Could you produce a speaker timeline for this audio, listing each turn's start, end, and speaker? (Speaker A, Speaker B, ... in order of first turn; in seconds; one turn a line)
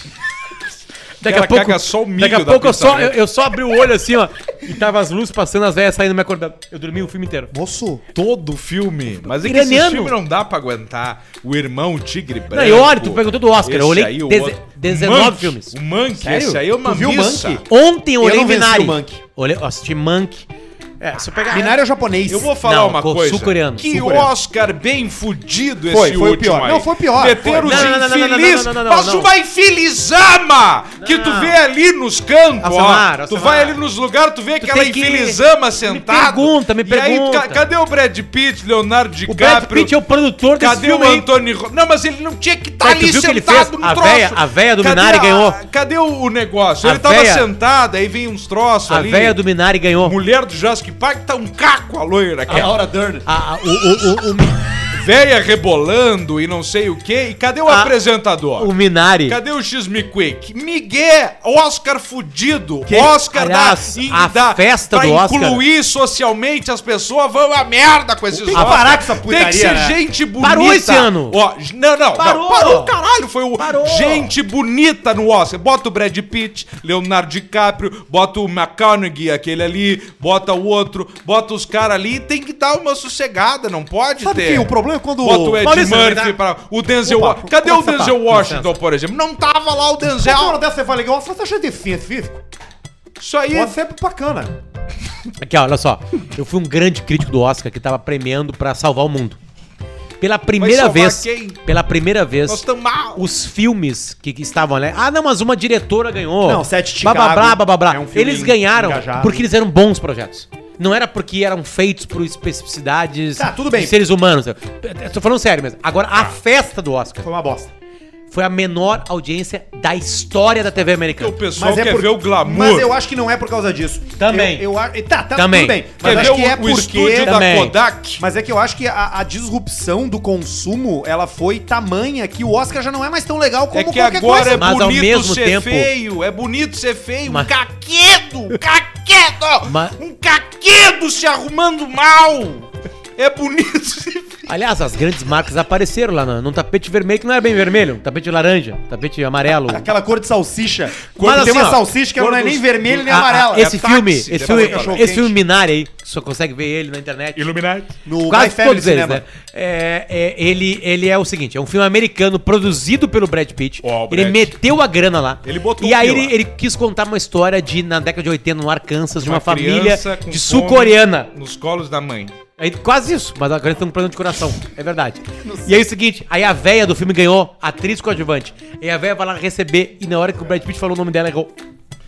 Speaker A: 1.2-7.5
Speaker B: 1.2-3.1
Speaker C: 7.5-8.0
Speaker B: 8.1-17.6
Speaker A: 9.4-10.1
Speaker A: 12.5-15.7
Speaker C: 16.2-17.6
Speaker A: 17.7-20.5
Speaker C: 18.2-19.2
Speaker A: 21.0-21.8
Speaker C: 21.5-22.5
Speaker B: 22.3-39.9
Speaker A: 22.6-24.1
Speaker C: 23.9-24.3
Speaker C: 25.9-28.0
Speaker A: 27.6-29.3
Speaker A: 31.0-31.6
Speaker A: 32.6-33.8
Speaker A: 34.6-37.6
Speaker A: 39.3-41.2
Speaker B: 40.6-49.4
Speaker A: 42.8-45.6
Speaker A: 46.8-47.5
Speaker A: 48.9-50.1
Speaker B: 50.0-52.7
Speaker C: 52.5-53.2
Speaker A: 53.2-54.6
Speaker B: 54.9-58.7
Speaker A: 57.7-57.9
Speaker A: 58.6-59.4
Speaker B: 59.3-90.6
Speaker A: 63.2-65.6
Speaker C: 68.3-70.0
Speaker A: 68.5-68.9
Speaker A: 70.4-71.4
Speaker A: 72.1-72.9
Speaker A: 73.6-74.3
Speaker C: 84.2-85.7
Speaker A: 85.6-86.3
Speaker C: 87.0-88.2
Speaker A: 88.0-88.7
Speaker C: 90.2-92.4
Speaker B: 93.2-93.7
Speaker C: 93.5-94.5
Speaker A: 95.4-99.4
Speaker A: 100.2-102.6
Speaker B: 100.6-101.6
Speaker B: 102.5-103.2
Speaker A: 103.1-117.3
Speaker C: 106.4-109.4
Speaker C: 113.4-114.0
Speaker C: 117.2-117.7
Speaker A: 118.3-121.4
Speaker B: 121.1-122.9
Speaker C: 121.5-127.4
Speaker A: 124.2-124.7
Speaker A: 125.3-126.4
Speaker B: 126.0-128.2
Speaker A: 127.2-127.7
Speaker C: 128.2-134.7
Speaker B: 133.7-144.5
Speaker A: 134.5-135.9
Speaker A: 139.7-140.0
Speaker A: 144.5-149.9
Speaker C: 149.6-155.3
Speaker B: 151.0-155.0
Speaker A: 151.2-151.8
Speaker A: 153.0-157.4
Speaker B: 157.3-157.9
Speaker C: 158.0-159.2
Speaker A: 158.3-171.3
Speaker B: 163.8-164.5
Speaker B: 165.4-166.3
Speaker B: 169.2-172.3
Speaker A: 172.6-181.5
Speaker C: 175.4-175.8